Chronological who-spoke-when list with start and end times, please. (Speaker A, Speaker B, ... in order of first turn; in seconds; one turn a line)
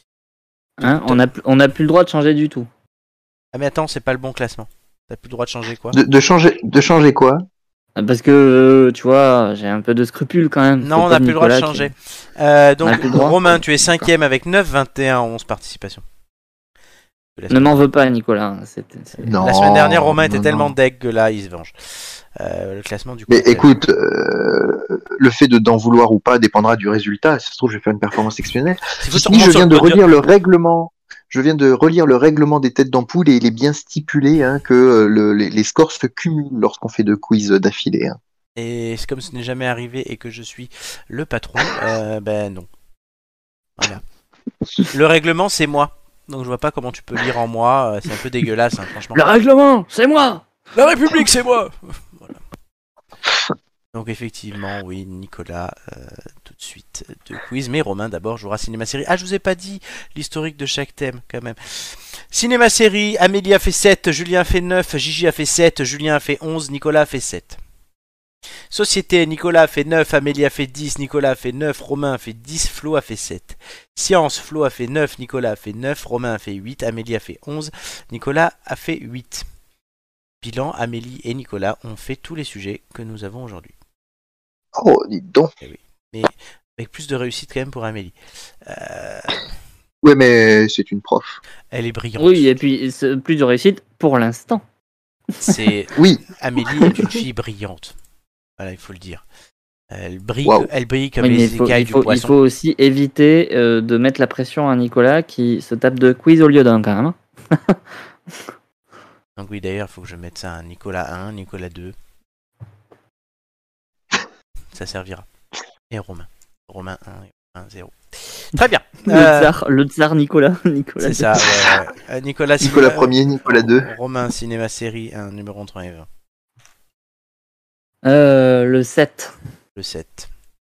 Speaker A: 0.8-2.7
Speaker B: 0.8-1.2
Speaker B: 3.5-6.0
Speaker C: 5.9-7.4
Speaker A: 8.0-11.9
Speaker B: 10.8-16.0
Speaker A: 12.8-13.4
Speaker B: 17.4-17.8
Speaker A: 17.5-19.3
Speaker C: 19.2-20.7
Speaker B: 19.4-23.7
Speaker C: 23.3-38.2
Speaker B: 29.0-30.2
Speaker B: 38.6-42.7
Speaker B: 44.9-49.2
Speaker A: 49.1-50.5
Speaker B: 50.8-52.4
Speaker B: 53.9-67.6
Speaker B: 68.7-79.5
Speaker B: 80.4-83.7
Speaker C: 84.8-85.5
Speaker B: 85.6-89.5
Speaker C: 90.0-91.4
Speaker B: 91.7-92.5
Speaker A: 92.2-94.6
Speaker B: 95.4-97.9
Speaker C: 95.9-96.2
Speaker C: 96.8-97.1
Speaker B: 98.6-99.2
Speaker B: 99.9-102.4
Speaker A: 101.2-107.8
Speaker B: 109.4-112.0
Speaker B: 114.7-115.2
Speaker B: 115.9-119.5
Speaker A: 119.1-121.5
Speaker B: 121.0-126.1
Speaker C: 122.6-123.9
Speaker A: 128.1-129.3
Speaker B: 129.8-130.3